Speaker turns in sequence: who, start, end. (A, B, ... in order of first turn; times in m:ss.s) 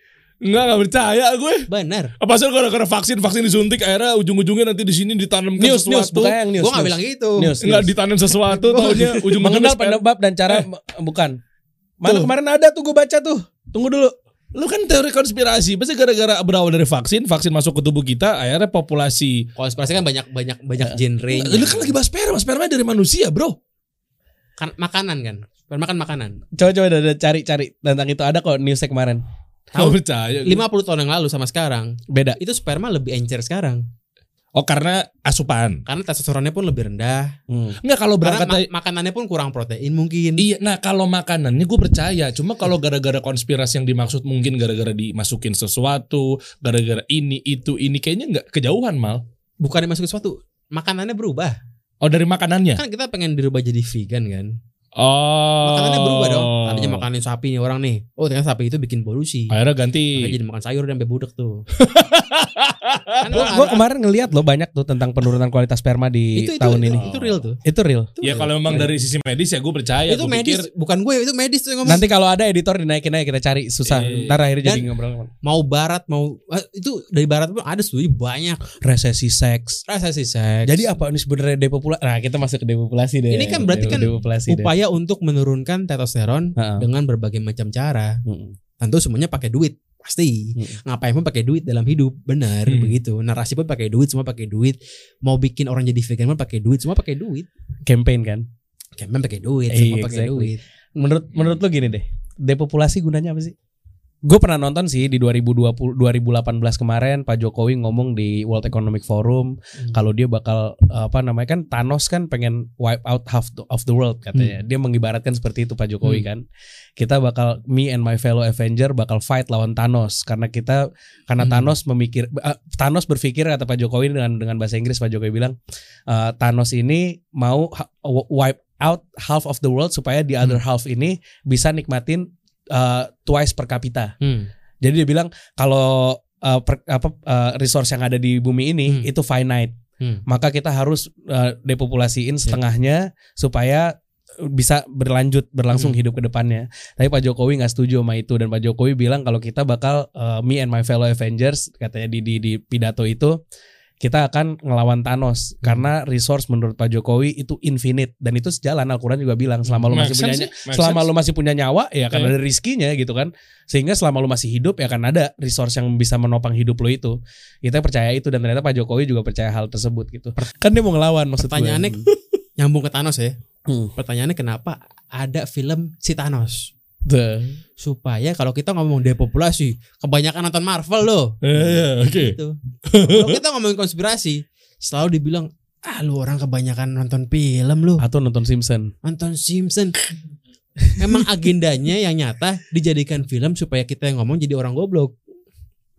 0:00.4-0:01.7 A
0:01.7-0:02.1 B
0:02.2-0:06.4 A
0:05.6-0:07.9 C
0:06.6-0:07.6 B
0:07.6-0:10.6 A
0:08.5-0:11.4 C
0:12.0-0:14.1 C
0:12.1-0:12.3 A
0:14.6-0:19.5 A
0:19.6-0:21.9 B
0:20.8-0:21.7 C
0:21.4-0:23.6 A
0:24.6-0:26.4 B
0:26.6-0:29.2 C
0:29.7-0:33.8 B
0:29.8-0:30.6 A
0:32.1-0:32.4 C
0:34.6-0:35.8 A
0:35.9-0:37.4 B
0:37.5-0:37.8 C
0:37.8-0:38.7 A
0:38.2-0:40.4 B
0:40.4-0:49.2 A
0:49.6-0:51.6 B
0:52.0-0:52.8 A
0:52.8-0:54.5 B
0:55.0-0:57.1 A
0:55.6-0:59.6 B
0:59.5-1:00.3 A
1:00.2-1:01.6 B
1:01.8-1:03.8 A
1:03.2-1:03.8 B
1:03.3-1:07.0 C
1:06.4-1:07.6 B
1:06.9-1:07.4 A
1:07.6-1:08.9 C
1:08.2-1:08.8 B
1:08.2-1:10.7 A
1:10.1-1:12.1 B
1:11.9-1:15.3 C
1:13.9-1:14.4 A
1:14.6-1:14.9 B
1:15.4-1:18.6 B
1:18.8-1:19.8 C
1:19.9-1:20.9 B
1:20.7-1:24.7 C
1:23.3-1:28.2 B
1:26.6-1:26.8 C
1:28.3-1:28.6 C
1:28.8-1:37.5 B
1:32.7-1:33.0 A
1:37.9-1:38.4 C
1:39.0-1:40.6 B
1:39.7-1:43.5 C
1:44.3-1:56.4 C
1:57.0-2:05.6 C
2:01.4-2:01.7 B
2:06.1-2:14.1 C
2:14.2-2:14.5 B
2:14.8-2:19.7 C
2:20.3-2:23.9 C
2:24.5-2:33.4 C
2:25.7-2:26.0 B
2:34.0-2:52.1 C
2:39.9-2:41.1 A
2:51.4-2:52.0 B
2:52.6-2:53.4 B
2:53.7-2:53.9 C
2:53.9-2:56.7 B
2:57.1-2:57.6 C
2:57.8-3:08.0 B
3:01.4-3:03.4 A
3:08.0-3:08.9 C
3:09.0-3:10.0 B
3:11.0-3:15.1 B